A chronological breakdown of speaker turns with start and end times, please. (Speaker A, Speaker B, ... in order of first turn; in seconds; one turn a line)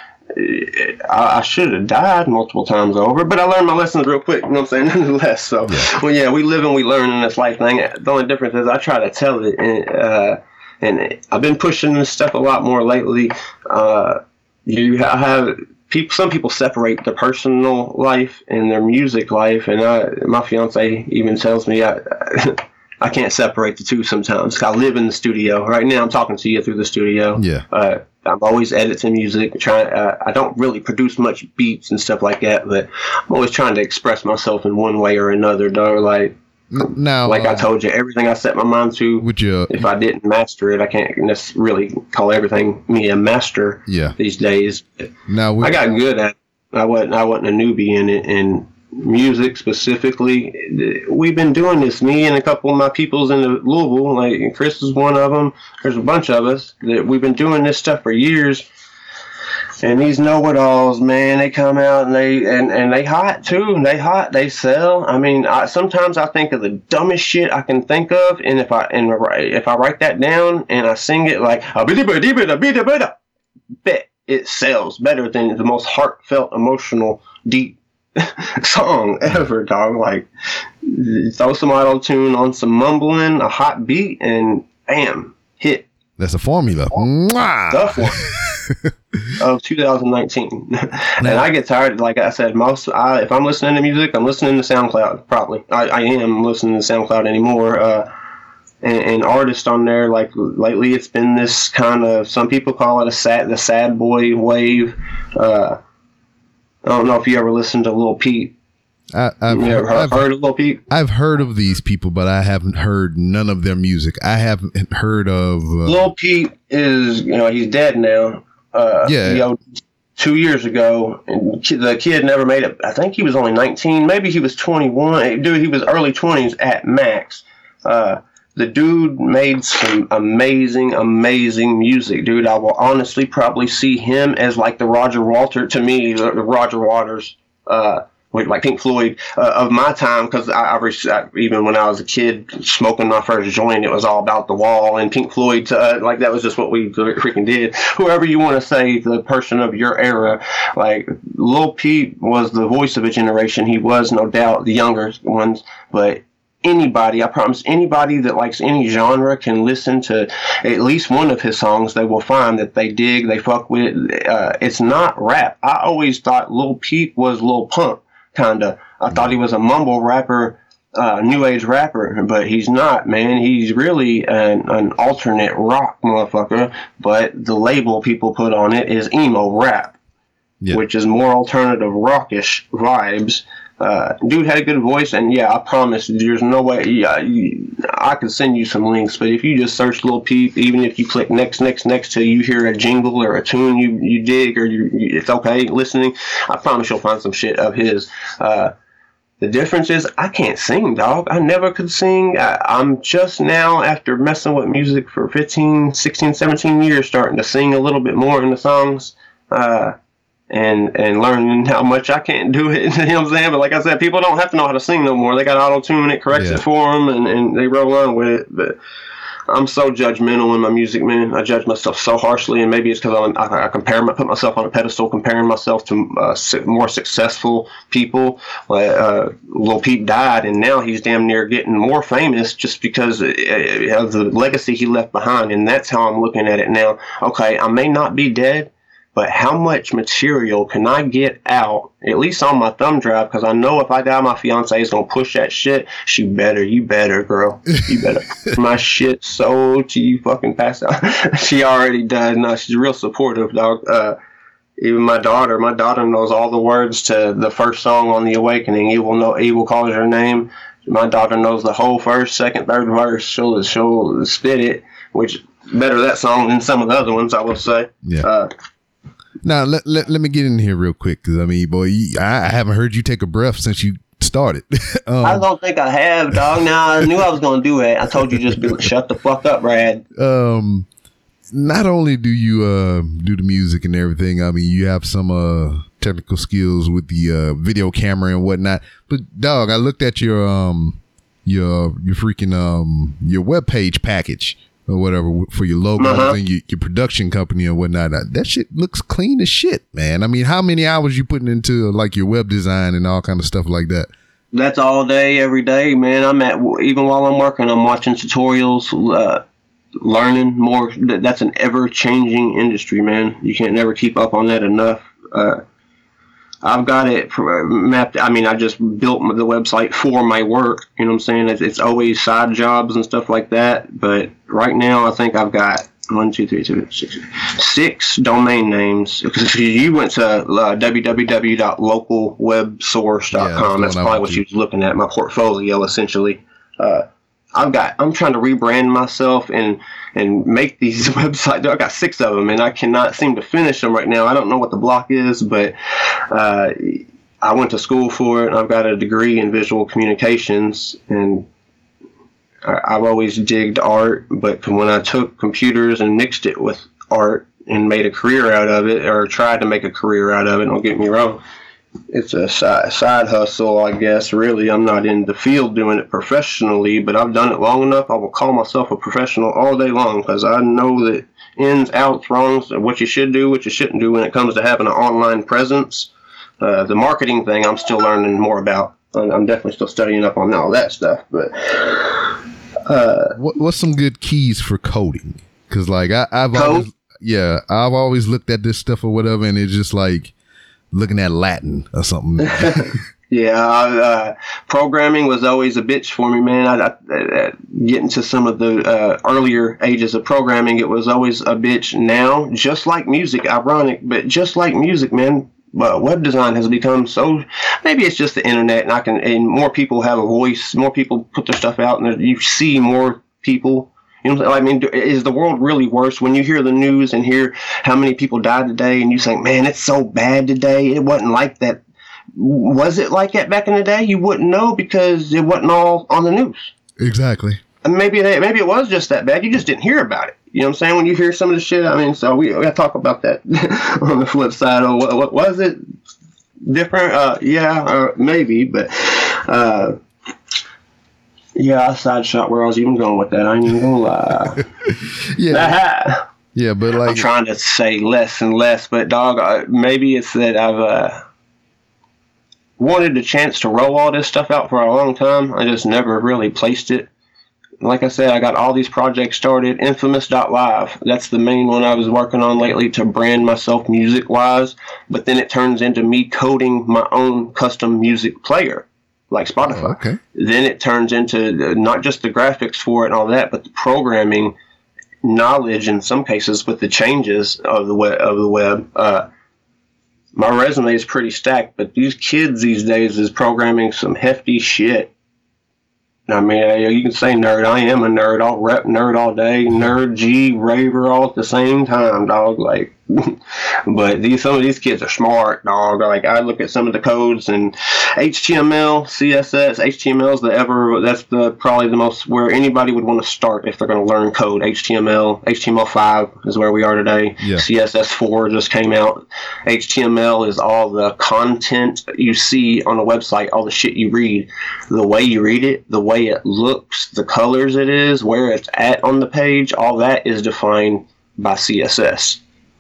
Speaker A: 0.3-36.3
Speaker B: 27.4-27.6
Speaker B: 36.7-37.7
Speaker A: 37.2-58.6
Speaker B: 39.2-39.9
Speaker B: 43.9-44.1
Speaker B: 45.3-45.8
Speaker A: 59.8-73.2
Speaker A: 73.8-80.3
Speaker A: 80.8-85.9
Speaker B: 86.2-88.9
Speaker A: 87.7-88.2
Speaker A: 89.4-98.1
Speaker B: 91.2-91.5
Speaker A: 98.8-105.8
Speaker A: 106.8-108.5
Speaker B: 109.1-110.3
Speaker A: 109.5-110.8
Speaker B: 110.9-116.0
Speaker A: 115.8-119.6
Speaker B: 119.0-119.5
Speaker A: 120.2-179.9
Speaker A: 180.7-198.7
Speaker A: 199.4-209.9
Speaker A: 210.5-218.8
Speaker B: 216.3-216.6
Speaker A: 219.5-254.2
Speaker A: 254.8-268.5
Speaker B: 269.4-275.5
Speaker A: 275.2-280.0
Speaker B: 280.1-280.9
Speaker B: 281.5-304.1
Speaker A: 296.0-296.4
Speaker A: 304.5-309.4
Speaker A: 310.0-315.6
Speaker A: 316.6-345.7
Speaker B: 333.3-334.4
Speaker A: 346.3-351.5
Speaker A: 352.6-361.4
Speaker A: 362.1-376.1
Speaker A: 376.6-382.3
Speaker A: 382.9-383.3
Speaker B: 383.3-390.3
Speaker A: 386.5-386.9
Speaker B: 390.9-392.9
Speaker A: 392.4-421.8
Speaker A: 422.4-426.7
Speaker B: 427.0-427.6
Speaker A: 427.8-435.8
Speaker A: 436.6-439.9
Speaker A: 441.6-444.6
Speaker B: 444.6-445.8
Speaker A: 445.5-446.2
Speaker B: 446.5-447.3
Speaker A: 447.0-451.2
Speaker A: 452.8-457.1
Speaker A: 457.8-474.5
Speaker B: 469.6-470.2
Speaker A: 475.2-479.3
Speaker A: 480.4-485.1
Speaker A: 486.3-493.3
Speaker A: 493.9-522.4